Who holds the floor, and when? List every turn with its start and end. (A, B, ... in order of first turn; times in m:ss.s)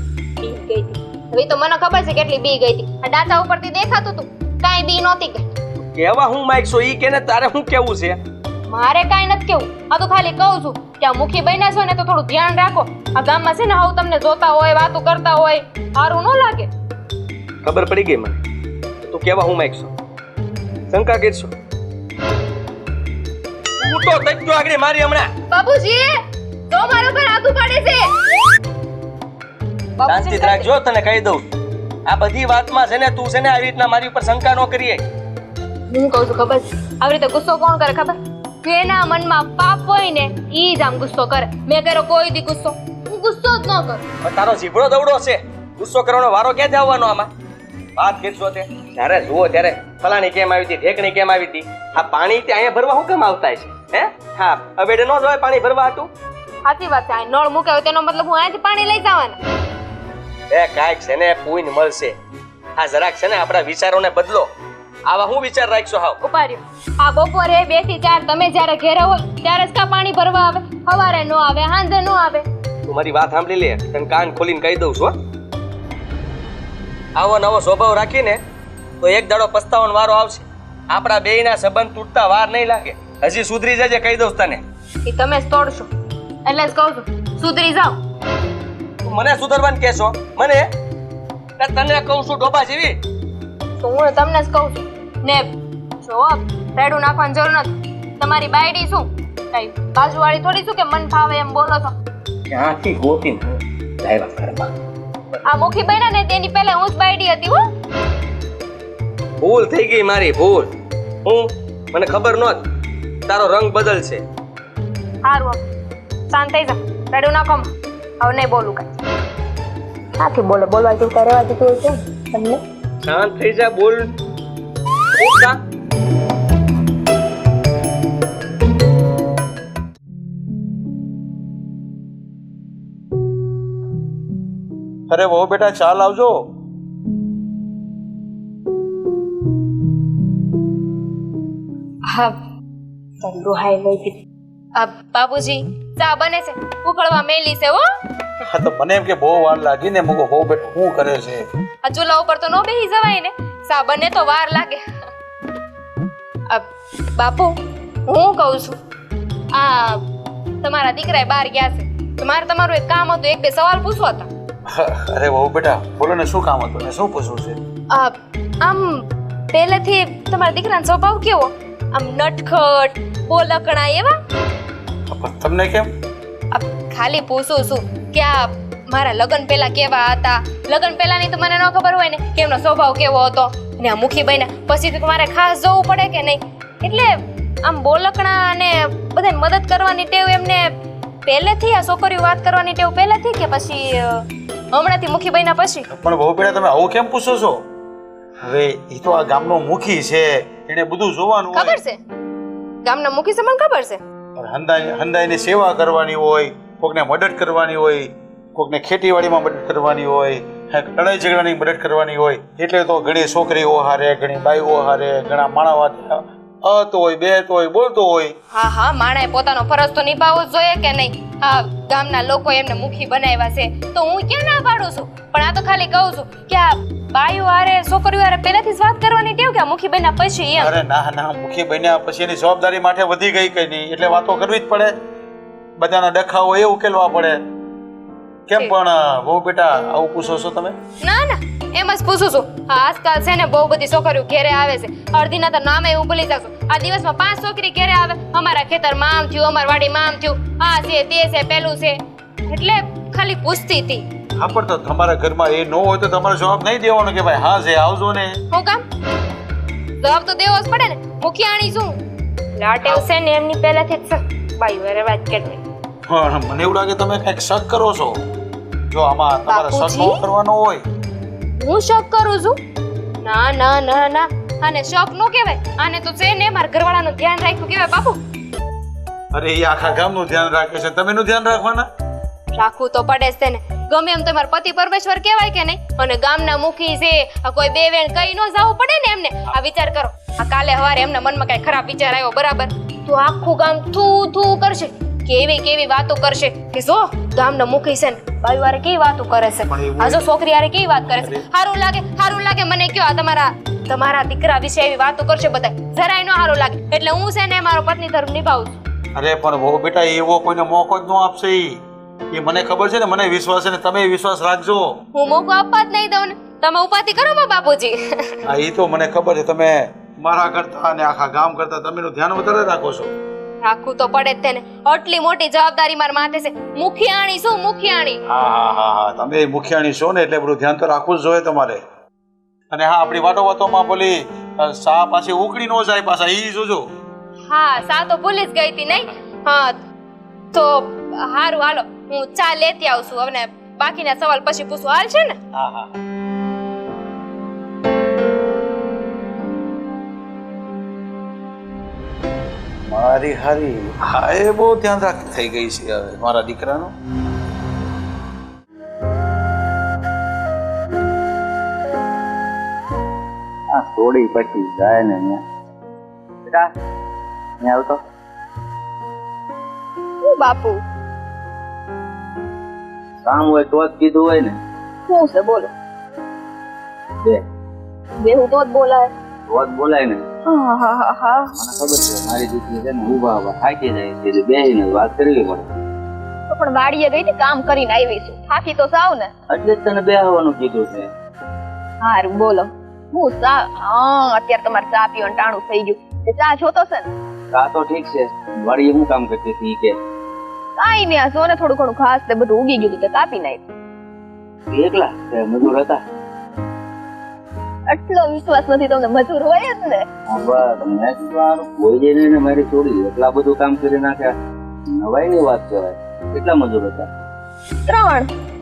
0:00.4-0:05.5 A
0:05.8-0:08.2 B
0:08.6-0:16.7 A
0:17.6-0:18.4 B
0:19.0-0:19.9 B
0:20.9-0:21.5 B
0:23.8-0:25.3 B
0:25.5-0:26.2 A
0:26.7-0:28.1 A
0:30.0-0:30.6 A
0:30.1-0:31.5 B
0:32.1-0:35.0 B
0:35.9-0:44.0 A
0:44.2-0:47.3 B
0:48.0-0:56.1 B
0:56.6-0:59.4 A
1:00.5-1:02.2 B
1:02.8-1:04.5 B
1:05.1-1:06.2 B
1:06.2-1:12.4 A
1:12.9-1:15.2 B
1:17.2-1:18.4 B
1:19.0-1:24.6 B
1:25.0-1:25.9 A
1:26.4-1:28.0 A
1:29.0-1:30.7 B
1:31.6-1:33.0 B
1:33.8-1:35.5 A
1:36.0-1:41.9 A
1:42.5-1:43.4 B
1:42.5-1:43.4 C
1:44.0-1:44.7 C
1:45.4-1:47.6 A
1:49.4-1:50.7 B
1:51.2-1:52.7 B
1:53.3-1:54.2 B
1:55.2-1:55.6 A
1:56.3-1:57.7 A
1:58.2-1:59.0 A
2:00.2-2:02.6 A
2:03.0-2:04.1 B
2:05.2-2:05.6 B
2:15.1-2:16.4 D
2:22.1-2:22.4 A
2:23.2-2:24.2 A
2:24.8-2:27.9 A
2:28.5-2:31.4 D
2:31.8-2:34.8 A
2:37.2-2:38.8 A
2:39.5-2:40.0 A
2:40.6-2:44.3 A
2:44.7-2:47.6 D
2:47.9-2:54.1 A
2:55.1-2:55.9 D
2:56.5-3:10.7 A
3:11.2-3:15.8 A
3:15.9-3:17.6 D
3:18.4-3:21.8 D
3:21.5-3:22.0 A
3:22.8-3:24.0 A
3:24.4-3:38.3 D
3:38.5-3:50.7 A
3:50.6-3:54.9 D
3:55.8-3:57.4 D
3:58.5-4:00.8 D
4:01.0-4:14.0 A
4:14.4-4:18.4 D
4:18.5-4:18.8 A
4:20.0-4:22.0 A
4:22.6-4:25.6 A
4:26.1-4:28.2 D
4:28.9-4:30.8 D
4:29.5-4:30.2 A
4:31.6-4:32.6 A
4:33.2-4:38.2 A
4:39.3-4:41.9 D
4:42.5-5:08.8 A
4:59.7-5:00.2 D
5:09.2-5:11.8 D
5:12.3-5:14.9 D
5:15.1-5:18.3 A
5:18.5-5:23.1 D
5:23.6-5:28.2 A
5:28.3-5:31.8 D
5:32.7-5:36.8 D
5:37.5-5:39.8 A
5:40.5-5:45.4 A
5:45.6-5:45.9 D
5:52.8-5:56.9 D
6:03.7-6:05.4 C
6:06.4-6:06.7 C
6:07.6-6:08.0 C
6:10.2-6:10.8 E
6:13.2-6:14.6 C
6:15.1-6:15.7 E
6:18.2-6:19.1 E
6:19.5-6:20.2 C
6:20.5-6:21.5 E
6:21.5-6:25.7 C
6:26.5-6:29.3 E
6:29.5-6:31.1 C
6:32.0-6:37.1 E
6:37.5-6:40.0 C
6:40.8-6:43.6 E
6:44.7-6:46.0 C
6:47.9-6:50.0 E
6:50.2-6:54.3 C
6:54.9-6:57.1 C
6:57.8-6:58.3 E